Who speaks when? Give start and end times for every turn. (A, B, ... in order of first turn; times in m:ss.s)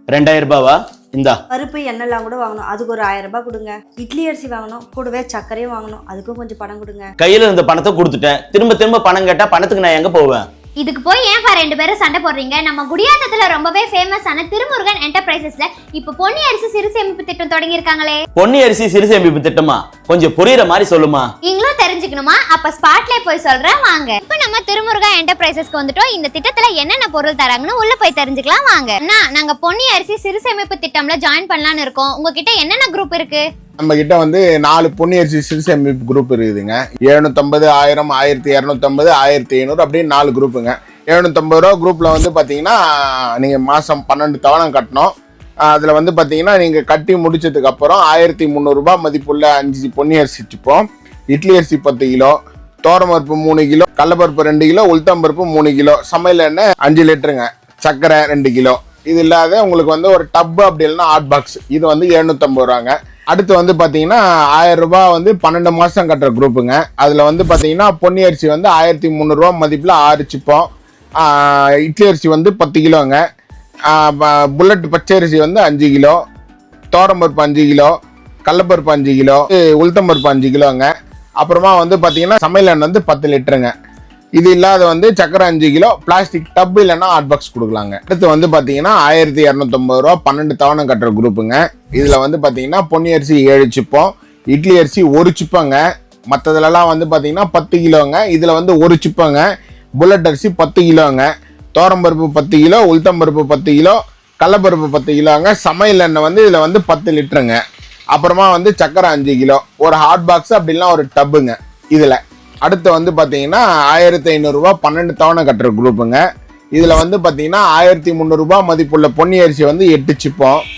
0:00.1-0:01.4 A
0:01.5-0:07.1 B
0:07.2-0:10.4 A
0:10.8-0:18.2 C
0:18.4-0:21.3 A
0:21.4-0:33.4 C
0:33.8-0:45.1 D
0:45.6-1:13.2 D
1:13.9-1:16.2 D
1:16.9-1:17.9 D
1:18.5-1:20.9 D
1:21.4-1:23.7 D
1:24.4-1:35.8 D
1:36.3-1:39.4 D
1:40.0-1:47.6 D
1:48.1-1:56.2 D
1:56.7-2:00.6 D